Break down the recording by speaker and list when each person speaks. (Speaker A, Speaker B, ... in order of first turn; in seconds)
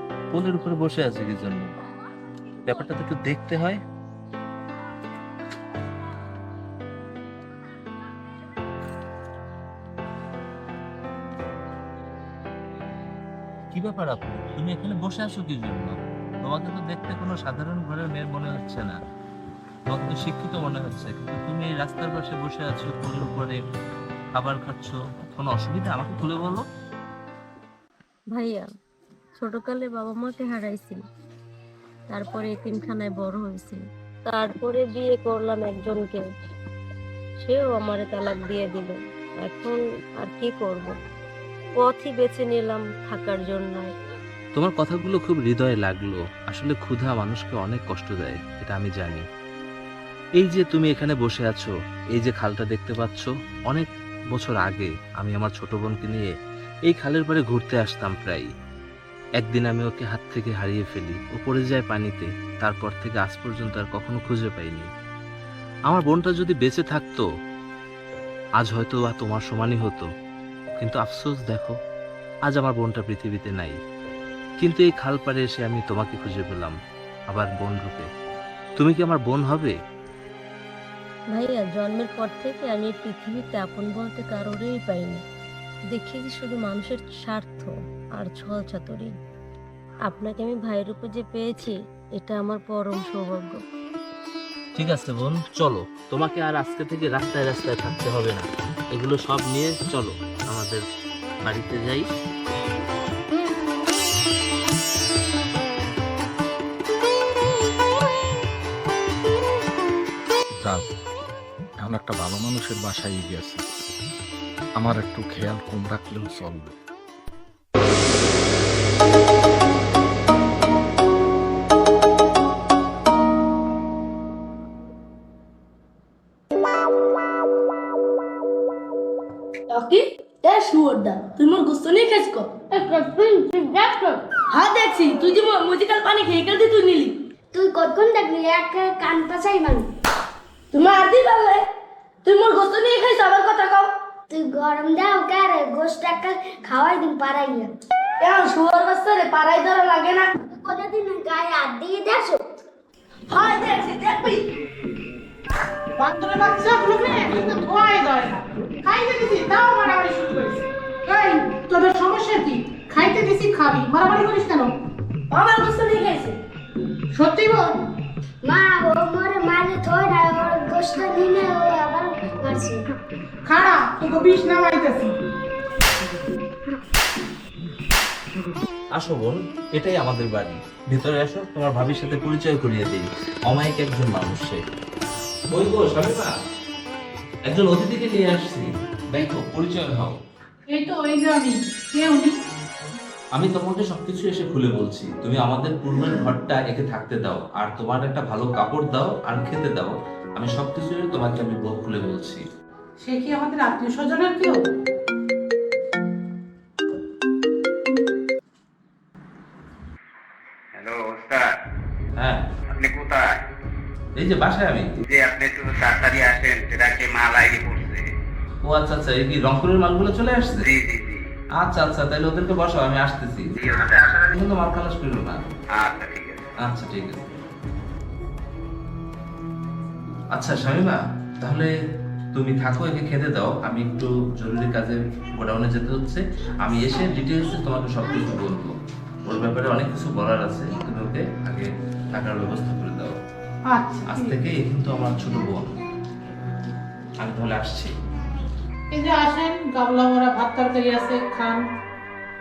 Speaker A: 0.3-1.7, 2.6-3.8, 13.7-19.0, 19.9-23.6, 24.4-26.6, 44.5-49.2, 50.4-56.3, 56.9-58.5, 59.4-64.9, 65.9-67.3, 68.6-70.1, 70.8-71.7, 72.5-73.8, 74.6-76.8, 77.3-78.1, 78.8-79.7, 94.8-100.8, 101.5-102.1, 178.9-184.6, 185.5-186.3, 187.5-190.2, 193.3-202.4, 214.2-214.9, 218.6-220.7, 221.6-225.4, 226.7-227.3, 230.3-231.7, 232.3-238.7, 239.2-243.2, 244.1-245.7, 247.2-247.9
Speaker B: 28.3-28.7, 29.4-31.0, 32.1-36.2, 37.4-40.9, 41.8-43.9, 81.3-85.2, 85.9-89.1, 90.1-93.6
Speaker C: 111.8-113.6, 114.8-116.7
Speaker D: 129.7-137.2, 140.7-141.7, 142.2-143.9, 148.2-150.4, 153.3-154.5, 165.3-166.4
Speaker E: 137.5-139.9, 144.3-147.7, 150.5-152.4, 168.4-172.8
Speaker F: 156.0-164.7, 167.1-167.8, 173.5-175.1, 190.7-192.3, 203.0-204.6, 243.7-244.4, 248.9-251.6
Speaker G: 210.8-211.5, 212.8-213.2, 215.0-218.1, 220.5-221.2, 223.6-224.3, 225.8-226.5